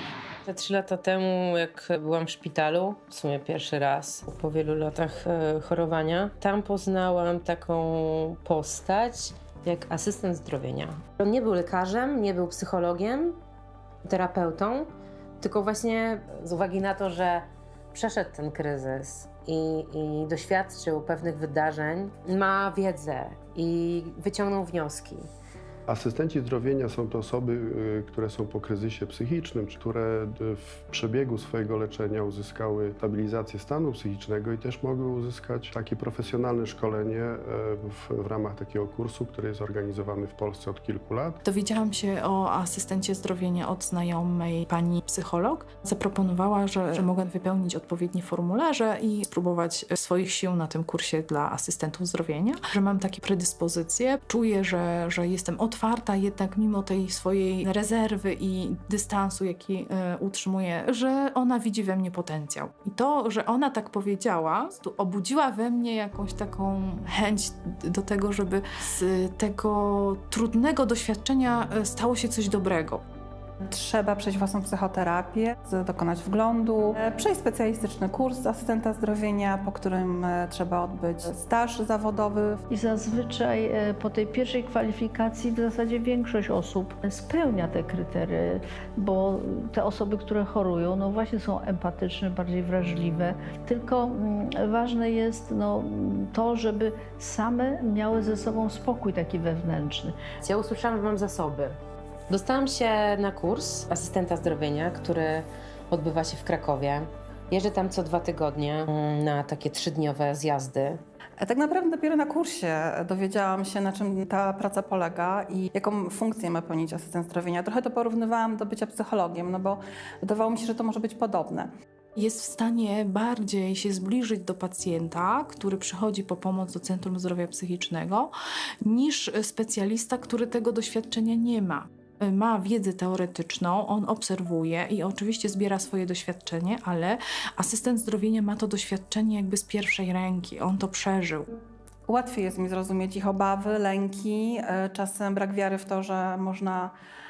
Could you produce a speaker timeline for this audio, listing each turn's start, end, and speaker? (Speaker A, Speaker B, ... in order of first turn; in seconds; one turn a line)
Speaker A: 0.5-13.3
Speaker A: 14.1-14.9
Speaker A: 15.4-25.2
Speaker B: 25.9-41.4
Speaker C: 41.4-73.0
Speaker D: 73.6-82.6
Speaker E: 82.7-100.2
Speaker A: 100.4-101.8
Speaker A: 102.3-111.0
Speaker D: 111.4-121.7
Speaker C: 122.2-128.3
Speaker C: 128.8-141.5
Speaker D: 142.1-146.9